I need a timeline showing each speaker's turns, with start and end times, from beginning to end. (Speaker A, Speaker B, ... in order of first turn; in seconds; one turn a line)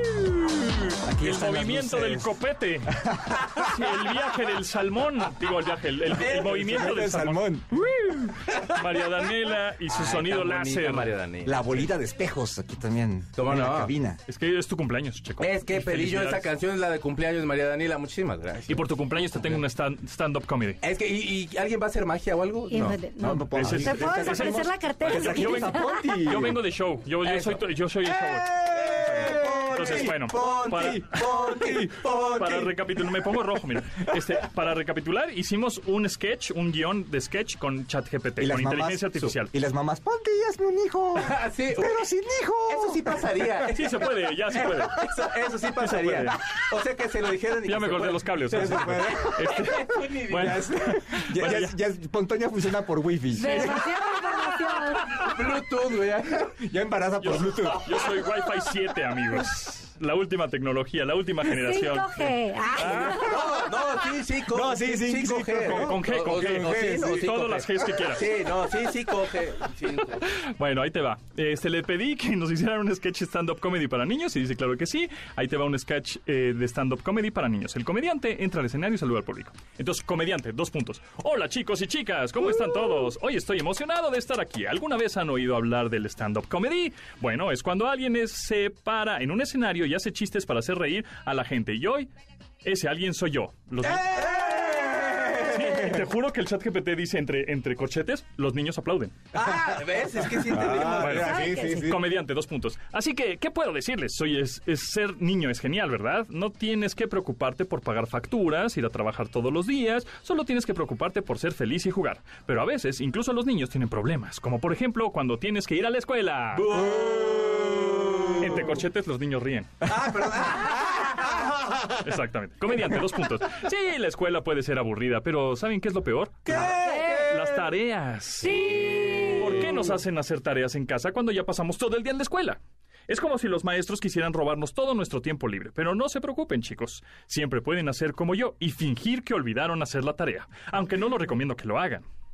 Speaker A: 0.7-11.1
Speaker B: 1.0-2.3
Speaker B: 2.9-3.8
Speaker C: 6.2-6.9
Speaker B: 6.2-8.6
Speaker C: 9.9-11.9
Speaker B: 11.4-14.2
Speaker C: 13.3-13.9
Speaker A: 14.3-16.5
Speaker C: 15.4-18.9
Speaker A: 18.7-20.8
Speaker C: 20.8-23.0
Speaker D: 22.7-26.1
Speaker B: 22.7-26.6
Speaker A: 23.5-31.3
Speaker C: 27.2-27.6
Speaker B: 28.4-32.1
Speaker C: 28.7-32.7
Speaker A: 32.4-39.5
Speaker B: 38.4-43.6
Speaker C: 41.1-42.0
Speaker C: 42.7-50.7
Speaker A: 43.7-45.1
Speaker A: 45.8-46.4
Speaker A: 47.6-51.7
Speaker B: 48.5-54.0
Speaker D: 53.3-55.2
Speaker C: 55.1-56.5
Speaker B: 56.3-58.0
Speaker A: 57.2-63.3
Speaker D: 61.5-63.4
Speaker B: 62.8-67.3
Speaker C: 62.9-70.2
Speaker A: 65.6-68.3
Speaker A: 70.2-92.1
Speaker A: 92.6-94.2
Speaker C: 93.8-95.6
Speaker B: 93.9-95.9
Speaker A: 95.3-99.1
Speaker C: 99.3-101.3
Speaker B: 99.4-102.1
Speaker A: 100.7-116.7
Speaker D: 101.2-101.9
Speaker C: 116.5-118.7
Speaker B: 116.7-118.4
Speaker A: 118.4-119.9
Speaker C: 119.8-121.5
Speaker B: 121.3-121.8
Speaker A: 121.9-142.0
Speaker C: 126.5-127.5
Speaker D: 126.8-127.3
Speaker D: 128.5-129.7